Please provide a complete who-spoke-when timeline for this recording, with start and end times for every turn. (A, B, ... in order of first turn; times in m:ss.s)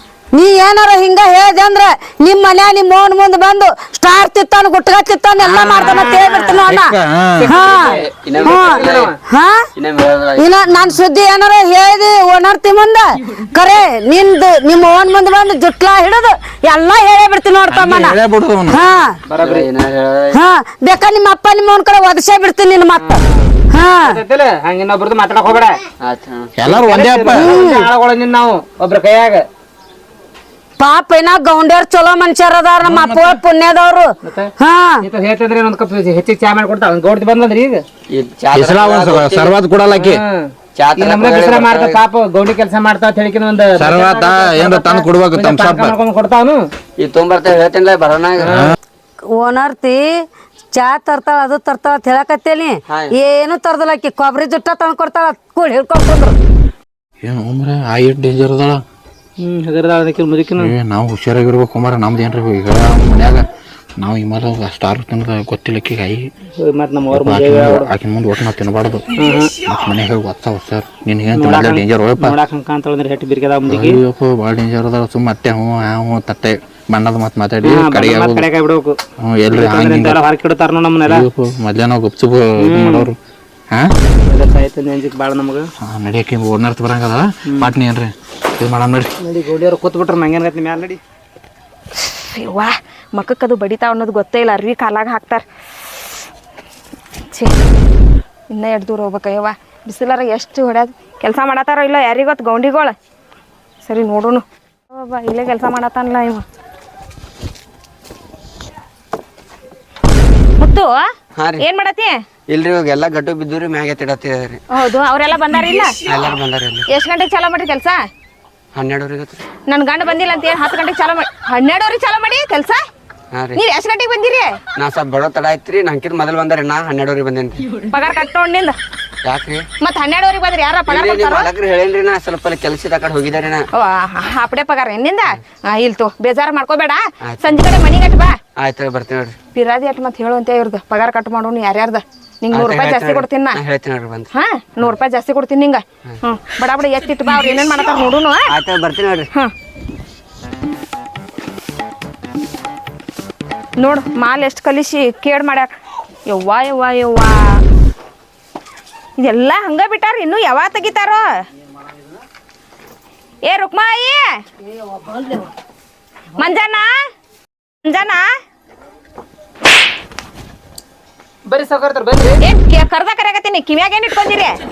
0:00.3-0:07.0 A
0:05.4-0:06.6 B
0:06.7-0:07.5 C
0:07.4-0:09.2 B
0:07.5-0:09.7 A
0:08.1-0:09.1 D
0:09.8-0:10.4 D
0:10.4-0:19.2 A
0:17.7-0:18.8 C
0:19.3-0:19.7 B
0:19.4-0:20.3 D
0:20.3-0:23.2 A
0:23.0-0:25.8 B
0:23.7-0:24.2 A
0:26.0-0:26.5 D
0:26.6-0:27.5 C
0:26.6-0:29.4 B
0:27.4-0:27.9 A
0:30.8-0:34.1 A
0:32.8-0:33.4 C
0:34.2-0:34.5 B
0:34.6-0:35.0 A
0:35.0-0:37.8 B
0:38.1-0:39.5 D
0:38.5-0:40.2 C
0:39.9-0:46.6 B
0:40.8-0:42.0 D
0:43.8-0:45.9 C
0:47.0-0:48.6 D
0:48.4-0:48.8 C
0:48.4-0:48.7 B
0:49.3-0:50.2 A
0:50.7-0:56.4 A
0:57.2-0:58.8 C
0:59.4-1:00.7 B
1:00.6-1:03.4 C
1:04.0-1:06.3 C
1:06.6-1:07.9 B
1:07.1-1:09.1 C
1:09.2-1:09.5 B
1:09.6-1:12.4 C
1:11.3-1:14.0 B
1:13.7-1:18.5 C
1:17.6-1:19.0 B
1:19.2-1:20.2 C
1:19.5-1:21.3 B
1:21.0-1:23.2 C
1:22.6-1:23.1 B
1:24.3-1:25.7 B
1:25.8-1:29.1 C
1:29.2-1:31.0 B
1:32.0-1:35.4 E
1:38.5-1:43.0 E
1:43.8-1:46.4 E
1:50.6-1:50.9 E
1:51.6-1:52.2 E
1:52.5-1:54.6 D
1:54.7-1:56.0 E
1:56.1-1:56.8 D
1:56.9-1:58.0 E
1:58.8-1:59.4 D
1:59.7-2:02.8 E
2:03.5-2:04.6 E
2:04.8-2:07.6 D
2:07.8-2:08.8 E
2:09.3-2:09.6 D
2:09.8-2:11.5 E
2:10.9-2:13.6 D
2:13.7-2:18.4 E
2:17.3-2:17.6 D
2:18.6-2:19.4 D
2:19.5-2:23.6 E
2:22.5-2:24.3 D
2:24.3-2:28.5 E
2:28.5-2:29.3 D
2:33.8-2:35.7 E
2:36.3-2:37.6 E
2:39.2-2:41.2 E
2:43.5-2:44.3 E
2:44.9-2:45.5 A
2:46.4-2:46.9 E
2:47.8-2:48.2 E
2:51.5-2:52.4 B
2:52.4-2:54.6 E